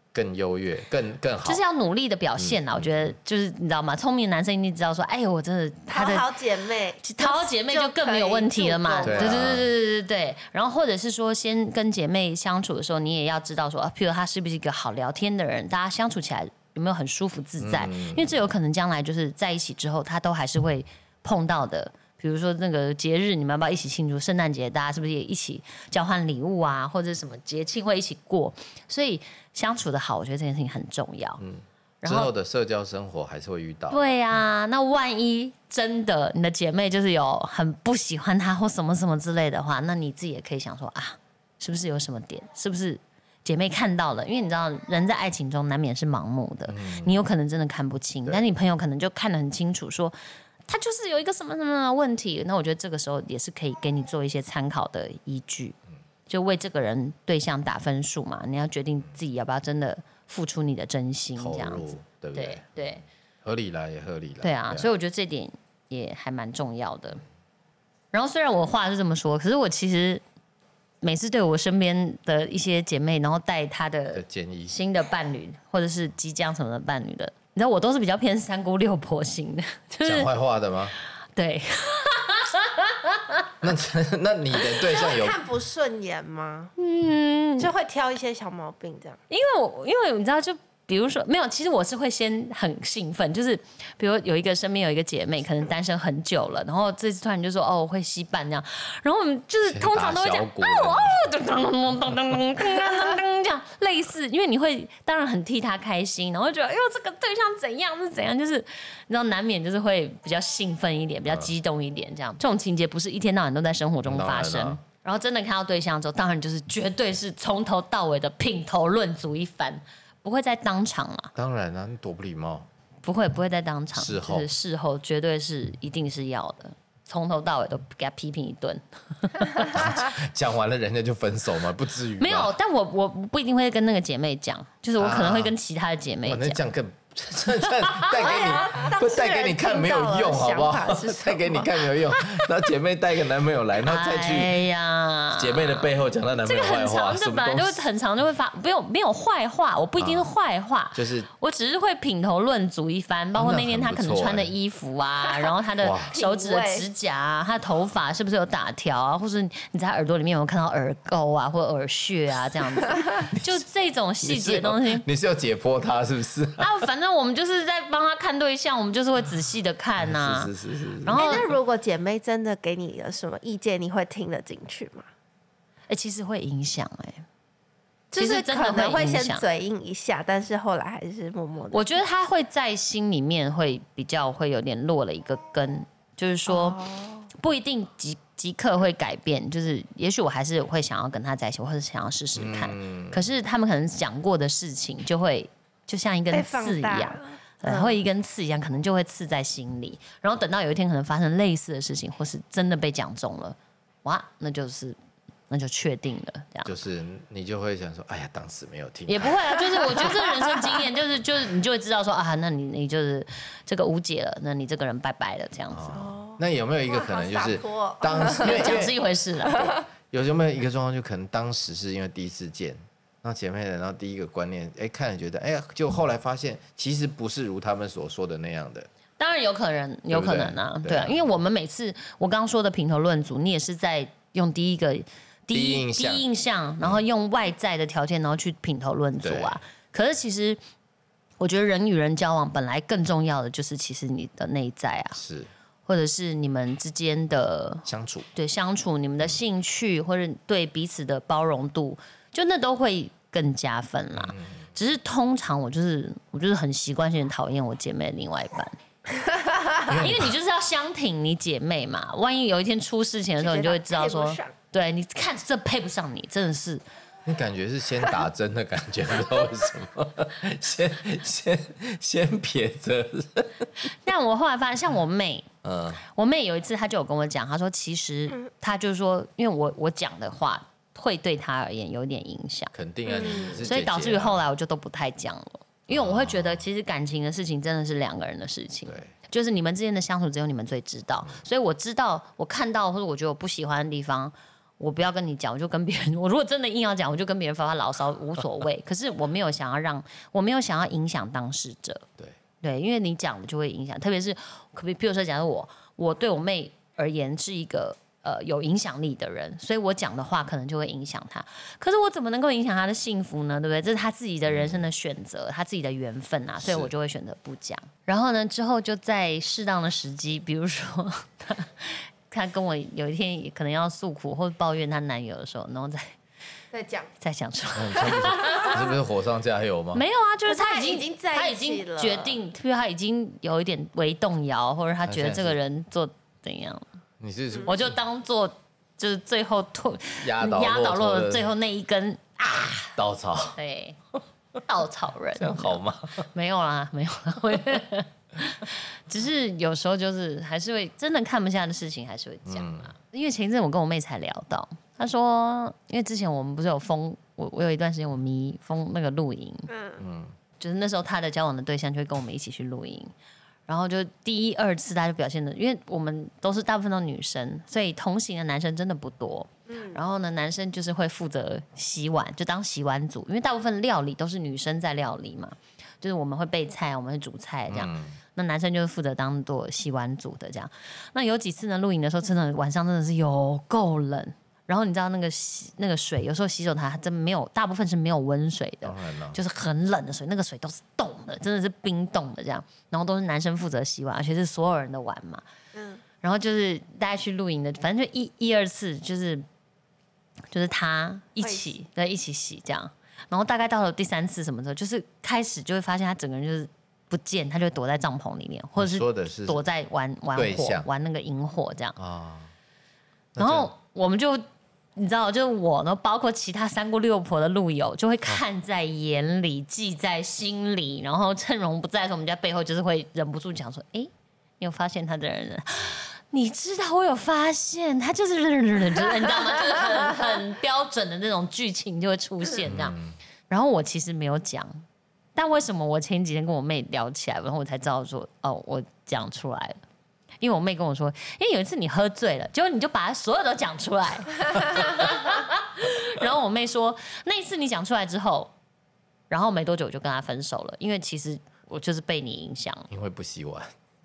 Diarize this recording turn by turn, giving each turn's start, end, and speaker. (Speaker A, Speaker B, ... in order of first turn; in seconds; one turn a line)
Speaker A: 0.1-1.6
Speaker B: 1.4-6.3
Speaker A: 2.4-3.1
Speaker C: 5.9-9.4
Speaker B: 7.0-31.4
Speaker A: 9.0-9.7
Speaker A: 17.6-18.3
Speaker A: 31.4-34.1
Speaker B: 32.0-32.3
Speaker B: 33.9-50.1
Speaker A: 46.7-47.1
Speaker B: 50.7-55.8
Speaker B: 56.3-63.0
Speaker A: 61.4-64.9
Speaker B: 64.4-67.2
Speaker B: 68.1-70.2
Speaker B: 71.0-80.3
Speaker A: 74.1-74.7
Speaker A: 80.0-80.9
Speaker B: 81.3-83.5
Speaker A: 83.6-85.4
Speaker C: 84.7-86.7
Speaker B: 86.8-87.7
Speaker C: 87.6-89.2
Speaker B: 89.3-121.3
Speaker A: 99.6-101.3
Speaker A: 114.0-114.8
Speaker A: 121.3-122.7
Speaker B: 123.0-129.9
Speaker A: 123.9-124.5
Speaker A: 129.7-132.5
Speaker B: 132.2-136.6
Speaker A: 135.0-135.5
Speaker A: 136.2-144.6
Speaker B: 137.8-138.6
Speaker C: 138.1-141.9
Speaker B: 143.8-145.9
Speaker A: 145.3-147.8
Speaker B: 146.4-165.0
Speaker A: 150.0-150.3
Speaker A: 150.9-151.3
Speaker A: 153.3-154.5
Speaker A: 155.8-156.2
Speaker C: 156.1-156.9
Speaker A: 163.3-163.6
Speaker A: 164.2-166.7
Speaker B: 166.6-170.5
Speaker A: 170.0-171.4
Speaker B: 171.0-171.5
Speaker C: 171.1-175.1
Speaker B: 175.9-177.2
Speaker C: 178.1-182.0
Speaker B: 178.2-179.4
Speaker B: 181.7-186.8
Speaker C: 186.5-187.3
Speaker B: 187.3-205.0
Speaker A: 192.3-193.2
Speaker C: 196.3-198.0
Speaker B: 205.5-206.7
Speaker A: 206.6-209.6
Speaker B: 209.1-216.0
Speaker A: 215.7-228.9
Speaker C: 215.9-218.9
Speaker B: 218.4-219.7
Speaker C: 219.4-219.8
Speaker B: 229.2-240.6
Speaker A: 230.1-231.3
Speaker A: 235.5-236.2
Speaker A: 239.2-239.6
Speaker B: 241.4-245.2
Speaker A: 245.2-245.5
Speaker B: 245.8-258.8
Speaker A: 247.8-248.3
Speaker A: 254.2-254.6
Speaker C: 259.2-259.8
Speaker A: 259.9-260.3
Speaker B: 259.9-266.8
Speaker C: 263.4-264.5
Speaker A: 267.2-273.7
Speaker B: 273.8-275.5
Speaker A: 275.6-276.0
Speaker B: 276.0-282.7
Speaker A: 282.7-284.4
Speaker C: 283.1-283.6
Speaker B: 283.6-302.1
Speaker A: 285.9-286.6
Speaker B: 302.6-326.1
Speaker A: 314.5-314.9
Speaker A: 316.6-316.9
Speaker C: 326.7-327.1
Speaker B: 327.2-328.8
Speaker A: 327.7-330.0
Speaker B: 329.9-336.8
Speaker C: 330.4-332.4
Speaker A: 335.1-335.6
Speaker A: 337.2-337.9
Speaker B: 337.6-342.9
Speaker A: 340.2-341.5
Speaker A: 342.9-343.6
Speaker B: 343.6-344.0
Speaker B: 344.6-359.7
Speaker A: 345.3-346.3
Speaker A: 352.4-352.9
Speaker C: 359.7-360.0
Speaker A: 360.0-360.3
Speaker B: 360.6-363.1
Speaker B: 363.7-395.4
Speaker C: 369.7-370.0
Speaker A: 377.7-378.2
Speaker A: 388.8-389.4
Speaker C: 395.7-396.0
Speaker B: 396.2-399.4
Speaker B: 400.5-412.0
Speaker C: 401.4-401.7
Speaker A: 408.8-409.6
Speaker A: 410.3-410.9
Speaker A: 412.0-412.5
Speaker A: 413.3-413.7
Speaker B: 413.4-414.4
Speaker B: 414.9-432.9
Speaker A: 432.6-433.1
Speaker B: 433.5-434.8
Speaker B: 435.4-439.8
Speaker B: 440.4-448.5
Speaker B: 449.3-452.9
Speaker A: 452.9-453.7